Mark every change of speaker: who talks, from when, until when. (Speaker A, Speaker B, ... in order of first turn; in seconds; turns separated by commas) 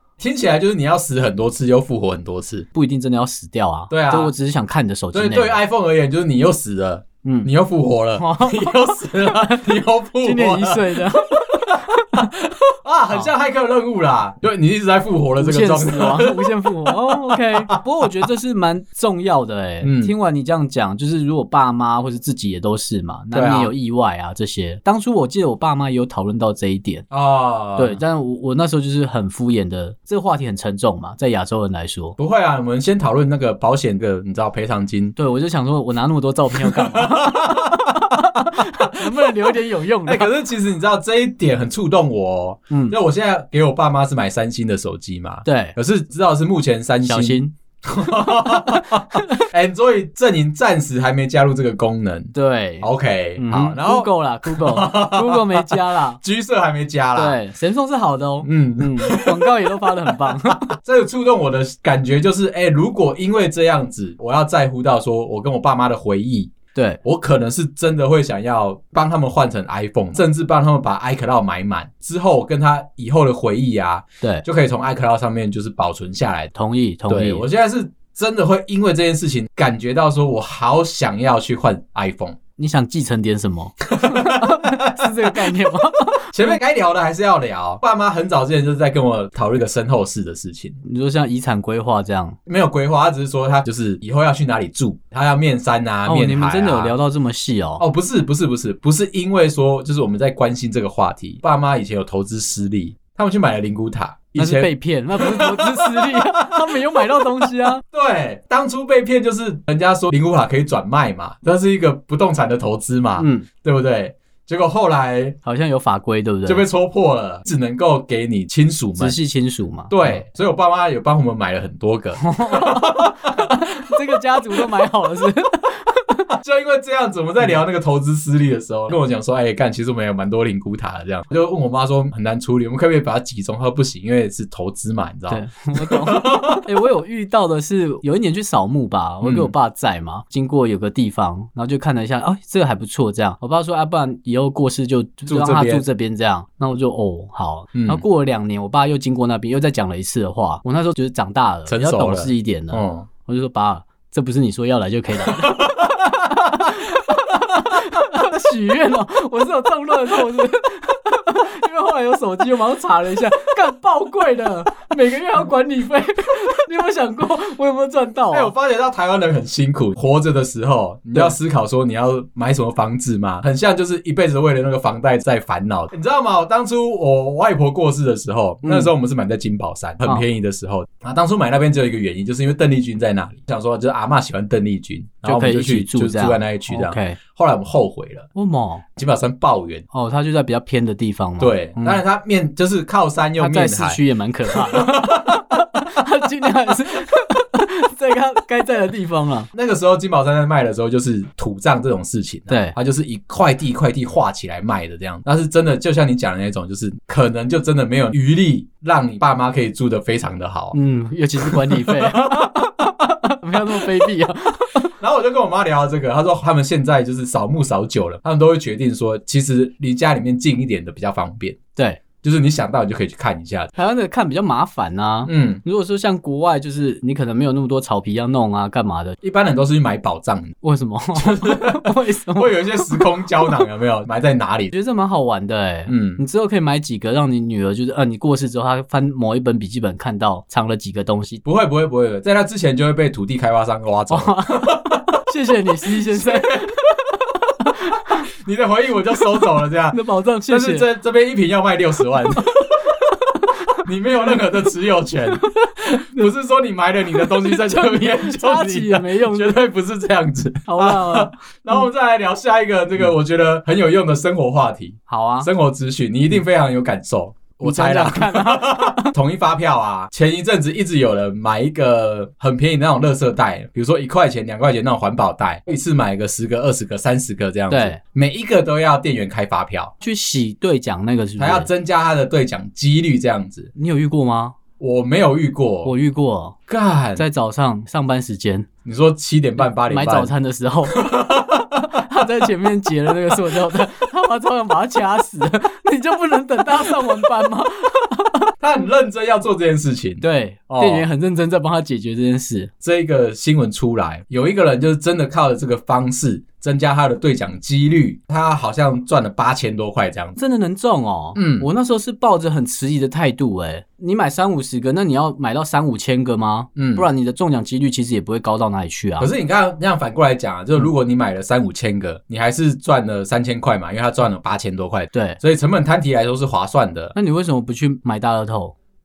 Speaker A: 0.2-2.7, Speaker B: 2.7-5.6, Speaker A: 3.9-4.3, Speaker A: 5.1-17.7, Speaker B: 7.2-7.5, Speaker B: 8.2-9.6, Speaker B: 10.2-12.3, Speaker B: 15.4-27.1, Speaker A: 19.8-20.1, Speaker A: 23.3-23.7, Speaker A: 27.1-28.0, Speaker B: 27.8-32.2, Speaker A: 32.2-35.1, Speaker B: 35.1-40.3, Speaker A: 36.6-38.2, Speaker A: 38.9-57.4, Speaker B: 42.7-43.0, Speaker B: 45.4-45.8, Speaker B: 47.0-49.4, Speaker B: 52.3-56.2, Speaker B: 57.1-60.7, Speaker A: 58.4-76.5, Speaker B: 66.7-67.0, Speaker B: 76.5-77.4, Speaker A: 77.1-82.4, Speaker B: 82.6-86.6, Speaker A: 83.9-85.6, Speaker A: 86.3-90.8, Speaker B: 90.8-92.4, Speaker A: 92.5-96.9, Speaker B: 96.1-97.8, Speaker A: 97.8-115.3, Speaker B: 104.4-107.8, Speaker B: 113.2-113.5, Speaker B: 115.4-116.6, Speaker A: 116.5-119.2, Speaker B: 119.0-120.2, Speaker A: 119.9-124.0, Speaker B: 122.2-126.3, Speaker A: 126.3-136.7, Speaker B: 135.3-168.5, Speaker A: 139.2-139.5, Speaker A: 145.3-145.8, Speaker A: 147.8-148.0, Speaker A: 151.7-153.1, Speaker A: 155.3-156.5, Speaker A: 168.3-188.3, Speaker B: 178.6-178.9, Speaker B: 185.2-187.2, Speaker B: 188.3-188.8, Speaker A: 189.0-189.8, Speaker B: 189.9-192.0, Speaker A: 191.4-195.6, Speaker B: 193.4-199.5, Speaker A: 199.5-210.8, Speaker B: 202.5-202.8, Speaker B: 210.7-214.9, Speaker A: 211.4-212.7, Speaker A: 213.7-214.1, Speaker A: 215.0-221.6, Speaker B: 221.8-222.0, Speaker A: 222.2-223.7, Speaker B: 223.8-229.2, Speaker A: 225.2-225.6, Speaker A: 229.2-230.6, Speaker B: 230.6-233.6, Speaker A: 231.2-234.7, Speaker B: 234.7-241.4, Speaker A: 235.9-236.2, Speaker A: 241.4-245.2, Speaker B: 244.1-248.2, Speaker A: 245.8-246.8, Speaker A: 248.2-253.2, Speaker B: 249.3-250.9, Speaker B: 252.4-254.4, Speaker A: 253.8-279.9, Speaker B: 255.3-255.7, Speaker B: 257.1-259.6, Speaker B: 260.6-261.3, Speaker B: 265.1-265.5, Speaker B: 267.6-269.1, Speaker B: 277.7-278.0, Speaker B: 280.0-281.7, Speaker A: 281.4-283.7, Speaker B: 283.7-284.6, Speaker A: 284.8-285.9, Speaker B: 285.8-286.6, Speaker A: 286.7-287.2, Speaker B: 287.2-288.7, Speaker A: 288.8-290.3, Speaker B: 289.6-298.5, Speaker A: 290.9-292.0, Speaker A: 293.3-293.8, Speaker A: 298.6-301.1, Speaker B: 300.2-302.7, Speaker A: 302.8-310.4, Speaker B: 310.4-319.3, Speaker A: 311.3-311.7, Speaker A: 316.8-317.1, Speaker A: 319.2-327.1, Speaker B: 325.1-325.4, Speaker B: 327.1-328.7